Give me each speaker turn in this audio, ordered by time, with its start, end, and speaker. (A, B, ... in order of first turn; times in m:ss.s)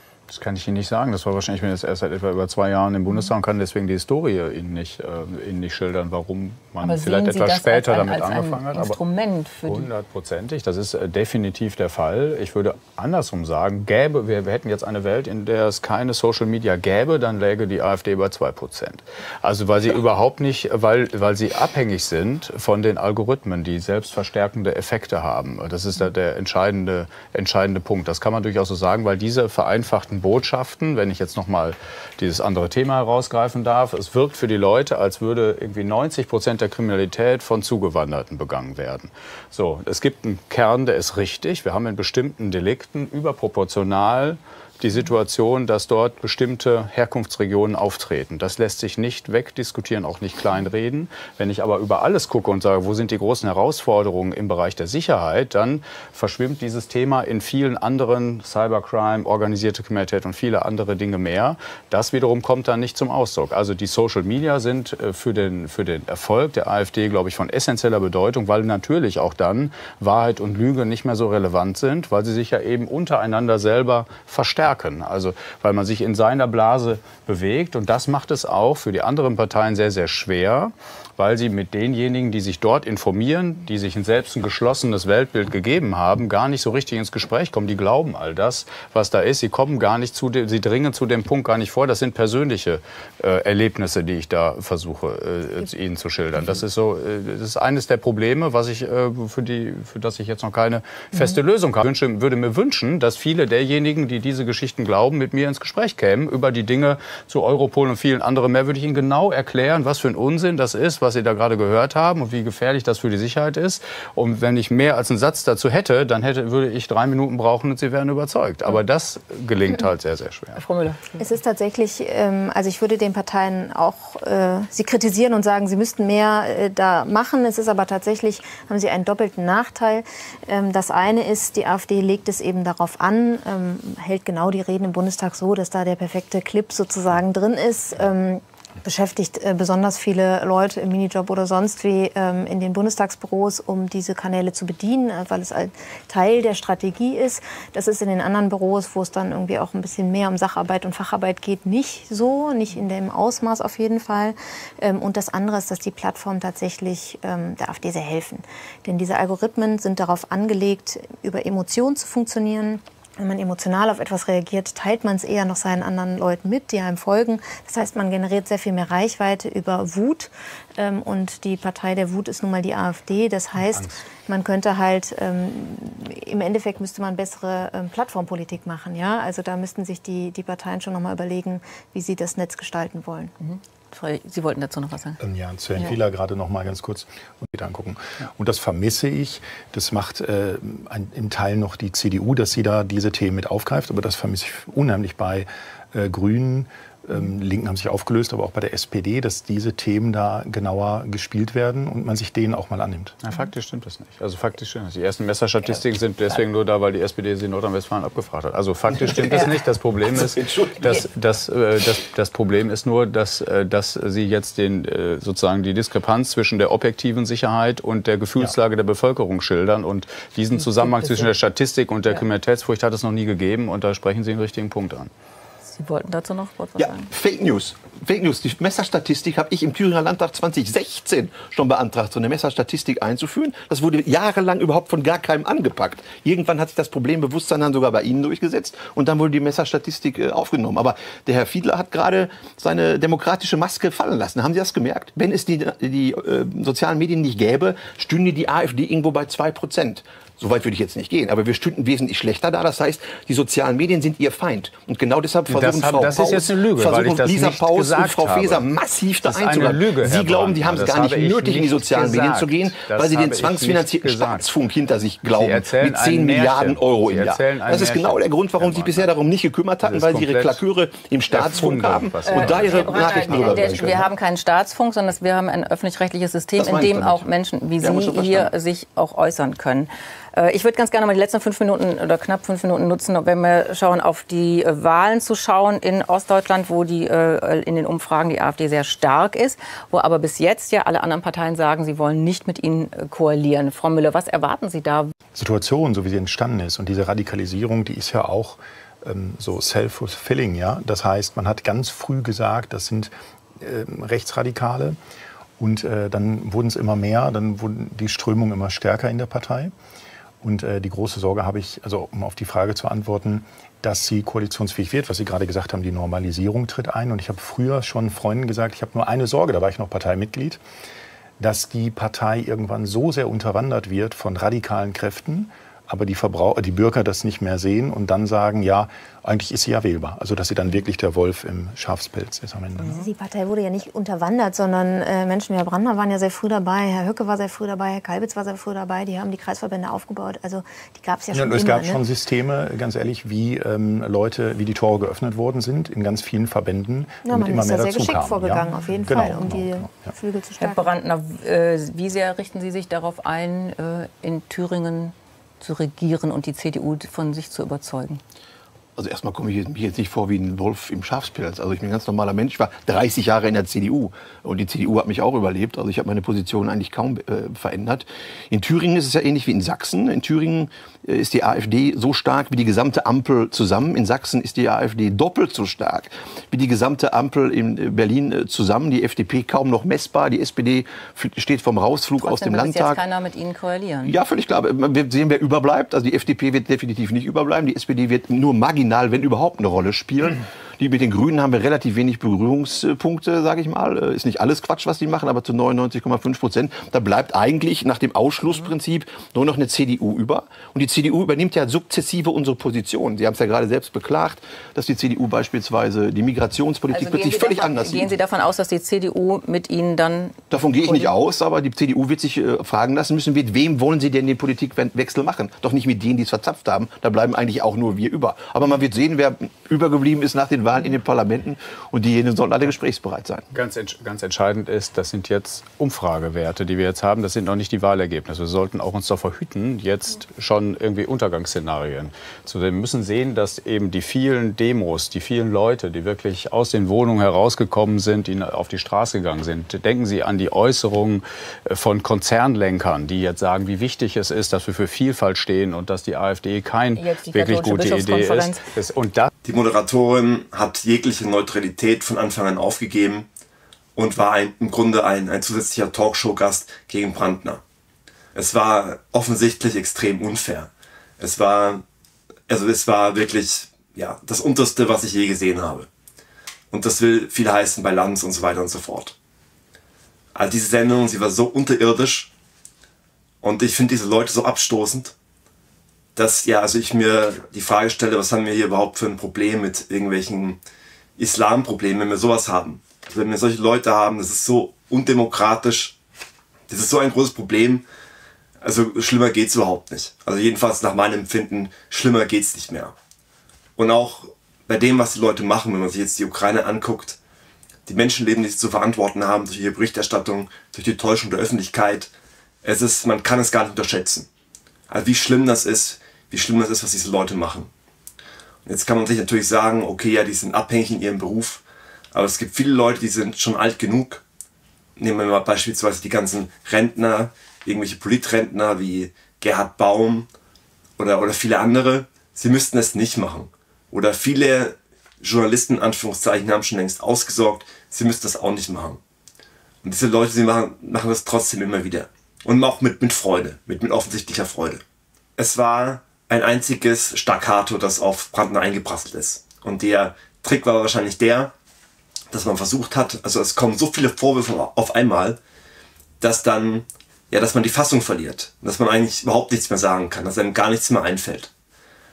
0:00.3-0:09.0 A
0:06.8-0:09.9 B
0:09.6-2:00.6 A
2:00.5-2:01.2 B
2:01.2-3:03.3 C
2:53.6-2:54.0 A
3:03.4-3:05.2 B
3:05.2-3:23.2 D
3:23.2-3:45.1 A
3:28.9-3:31.0 E
3:40.5-3:41.3 B
3:45.6-3:47.1 B
3:46.8-4:34.1 E
4:15.5-4:18.6 A
4:19.2-4:24.5 A
4:25.2-4:29.1 A
4:29.8-4:30.6 A
4:31.3-4:33.8 A
4:32.2-4:55.1 B
4:36.6-4:37.3 E
4:37.8-4:38.5 E
4:55.3-5:05.0 D
5:05.6-5:09.7 D
5:10.4-5:20.6 D
5:21.4-5:33.0 D
5:32.9-5:42.0 C
5:41.3-5:50.1 D
5:47.2-5:50.9 C
5:50.6-5:58.2 B
5:59.0-6:23.0 E
6:22.2-6:24.1 B
6:24.0-6:48.1 E
6:46.9-6:51.1 B
6:50.5-7:03.4 E
7:03.5-7:29.3 A
7:26.9-7:28.6 B
7:29.4-7:33.3 F
7:34.0-7:37.6 F
7:38.3-7:41.8 F
7:42.5-7:45.9 F
7:46.7-7:49.2 F
7:50.3-7:52.3 F
7:53.4-7:55.1 F
7:56.1-8:00.6 F
8:01.2-8:05.9 F
8:06.7-8:07.8 F
8:08.6-8:12.9 F
8:13.8-8:17.2 F
8:17.8-8:22.1 F
8:22.6-8:24.3 F
8:24.9-8:27.7 F
8:28.6-8:34.2 F
8:35.0-8:40.3 F
8:41.0-8:49.0 F
8:49.8-8:54.8 F
8:55.4-9:01.5 F
9:02.3-9:05.4 F
9:06.2-9:11.5 F